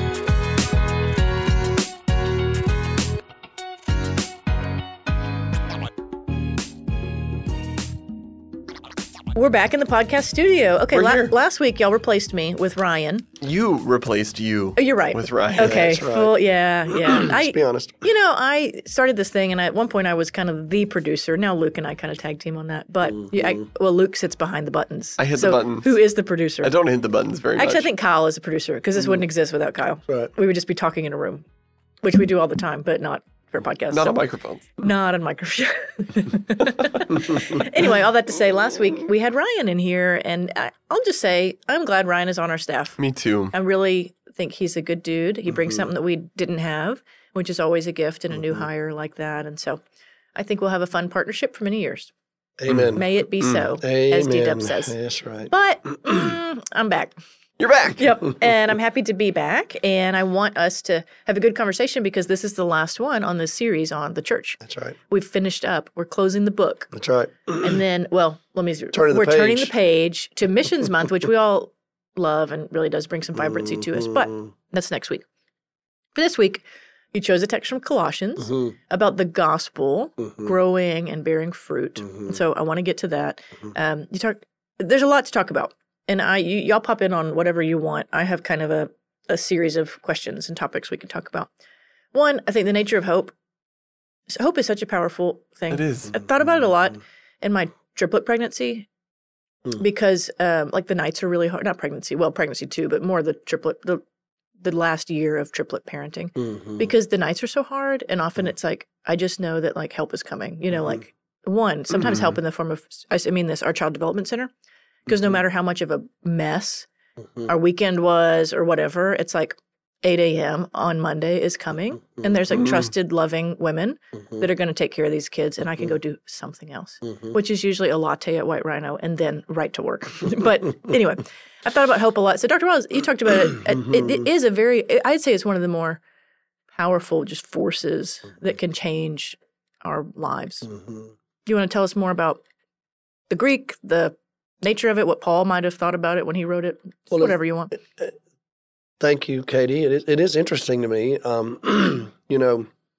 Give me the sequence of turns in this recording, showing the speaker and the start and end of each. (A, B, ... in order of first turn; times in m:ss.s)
0:09.3-0:13.2 A
0:10.9-0:11.3 B
0:13.4-0:15.9 B
0:14.8-0:26.7 A
0:15.6-0:16.4 C
0:17.0-0:18.0 C
0:23.2-0:23.6 C
0:25.2-0:25.9 B
0:26.6-0:27.9 B
0:27.6-0:31.4 A
0:32.0-0:34.2 A
0:33.9-0:34.8 B
0:34.8-0:43.0 A
0:43.0-0:43.5 B
0:43.5-0:49.8 A
0:48.3-0:48.6 C
0:50.4-0:52.1 A
0:52.6-0:53.1 C
0:52.7-0:53.7 B
0:53.0-0:55.0 A
0:53.8-0:55.5 C
0:55.5-0:57.1 A
0:57.6-0:58.3 B
0:58.0-1:07.0 A
1:04.6-1:04.9 C
1:06.9-1:07.8 C
1:07.6-1:15.2 A
1:08.9-1:09.7 C
1:13.4-1:14.5 C
1:16.1-1:31.5 A
1:18.4-1:18.7 C
1:22.1-1:22.4 C
1:32.1-1:33.3 A
1:34.3-1:38.9 A
1:35.7-1:36.1 B
1:39.8-1:44.0 A
1:44.6-1:54.5 A
1:46.4-1:46.8 C
1:55.1-1:56.9 A
1:57.5-2:16.0 A
2:16.8-2:20.7 A
2:20.7-2:21.1 C
2:21.4-2:22.4 A
2:23.3-2:27.7 A
2:27.1-2:28.2 C
2:29.0-2:32.7 C